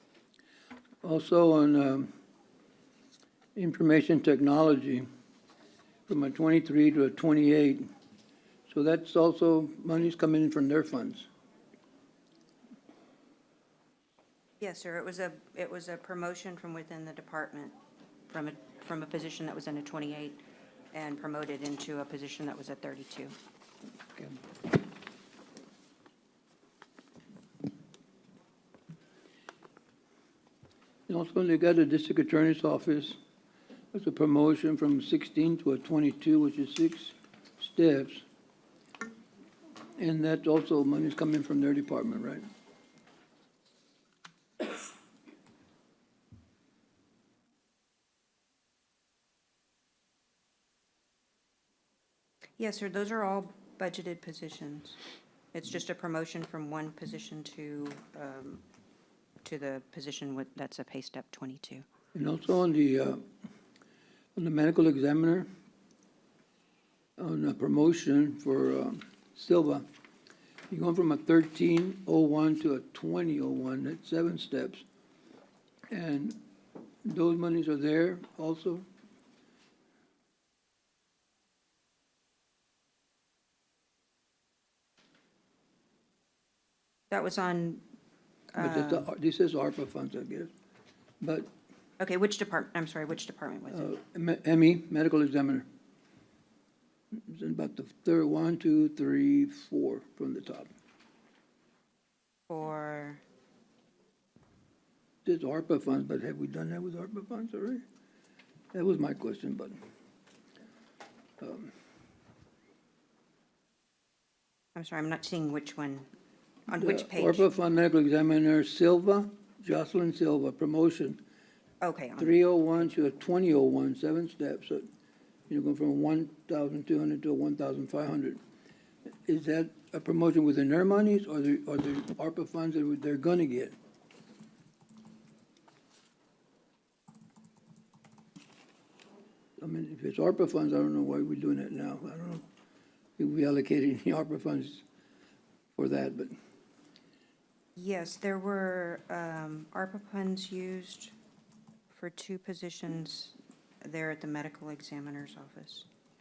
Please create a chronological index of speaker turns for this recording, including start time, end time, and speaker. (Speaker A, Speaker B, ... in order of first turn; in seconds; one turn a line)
Speaker A: 1.0-2.1
Speaker A: 3.5-5.0
Speaker A: 6.1-7.8
Speaker A: 8.7-11.3
Speaker B: 14.6-17.7
Speaker B: 18.3-23.3
Speaker A: 31.1-33.1
Speaker A: 33.9-38.2
Speaker A: 40.0-42.5
Speaker B: 52.6-55.0
Speaker B: 55.5-58.6
Speaker B: 59.4-61.8
Speaker A: 62.1-63.2
Speaker A: 64.3-65.5
Speaker A: 67.2-69.8
Speaker A: 70.7-74.8
Speaker A: 75.9-76.4
Speaker A: 77.0-78.8
Speaker B: 87.1-87.8
Speaker B: 88.5-89.1
Speaker A: 88.6-90.5
Speaker A: 91.2-91.5
Speaker B: 92.0-93.9
Speaker A: 93.7-95.7
Speaker A: 97.3-100.7
Speaker B: 102.5-103.2
Speaker A: 105.2-107.8
Speaker A: 108.7-109.8
Speaker A: 111.4-111.7
Speaker B: 114.7-116.1
Speaker B: 116.7-117.5
Speaker A: 116.8-121.2
Speaker B: 121.8-122.4
Speaker A: 122.2-124.8
Speaker A: 125.5-128.4
Speaker A: 129.2-133.7
Speaker A: 139.6-142.4
Speaker A: 143.2-144.8
Speaker A: 145.8-146.3
Speaker B: 147.8-151.1
Speaker B: 151.9-155.9